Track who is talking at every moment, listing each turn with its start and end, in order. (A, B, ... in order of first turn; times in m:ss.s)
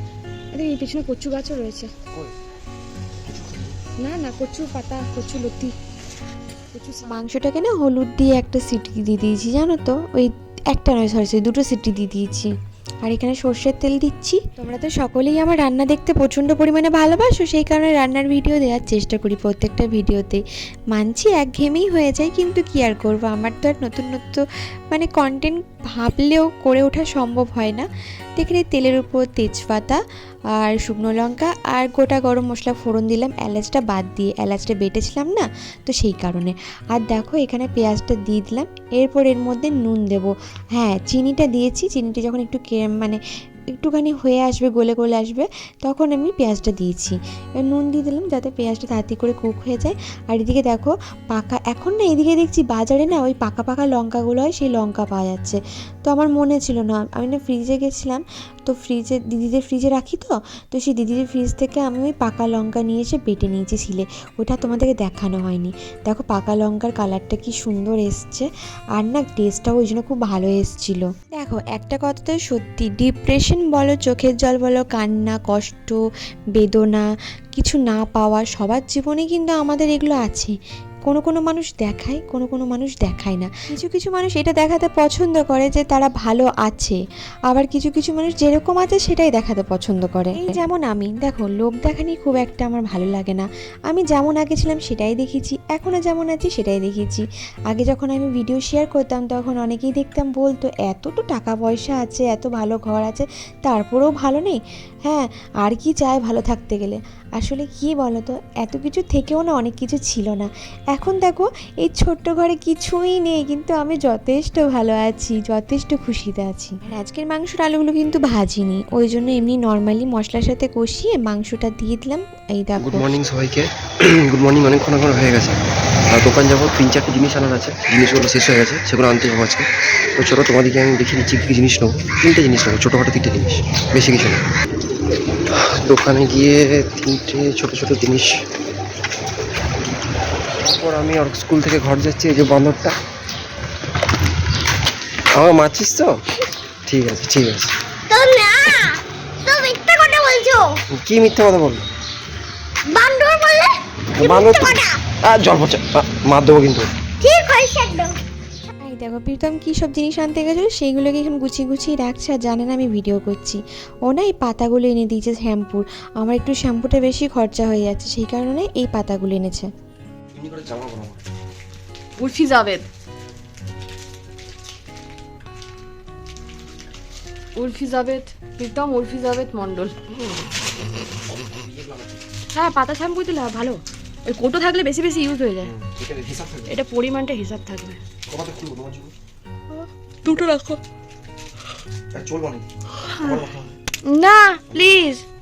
0:00.5-0:01.9 A
0:03.3-0:03.8 B
0:04.0-0:05.7 A
0:06.7-0:07.1 A
0:07.0-0:12.5 C
0:13.0-0:20.4 C
0:20.9-0:27.9 C
0:28.4-0:30.0 C
0:30.6-0:43.2 C
0:43.7-1:16.0 C
1:16.6-1:20.5 C
1:21.0-2:03.0 C
2:02.8-2:05.6 B
2:06.1-2:14.4 B
2:15.5-2:18.4 B
2:20.6-2:23.0 B
2:25.3-2:26.2 B
2:26.9-2:27.8 B
2:28.1-2:30.8 D
2:31.0-2:31.9 B
2:32.9-2:35.0 D
2:34.2-2:36.9 B
2:37.2-2:38.2 D
2:38.8-2:49.7 C
2:50.3-2:51.2 B
2:52.2-2:52.9 A
2:57.6-3:00.0 A
3:01.3-3:02.2 B
3:02.5-3:05.7 A
3:05.7-3:06.8 B
3:06.7-3:08.0 A
3:08.3-3:09.1 B
3:09.7-3:10.8 A
3:12.1-3:12.7 B
3:13.0-3:13.4 A
3:13.2-3:13.8 B
3:14.0-3:15.2 A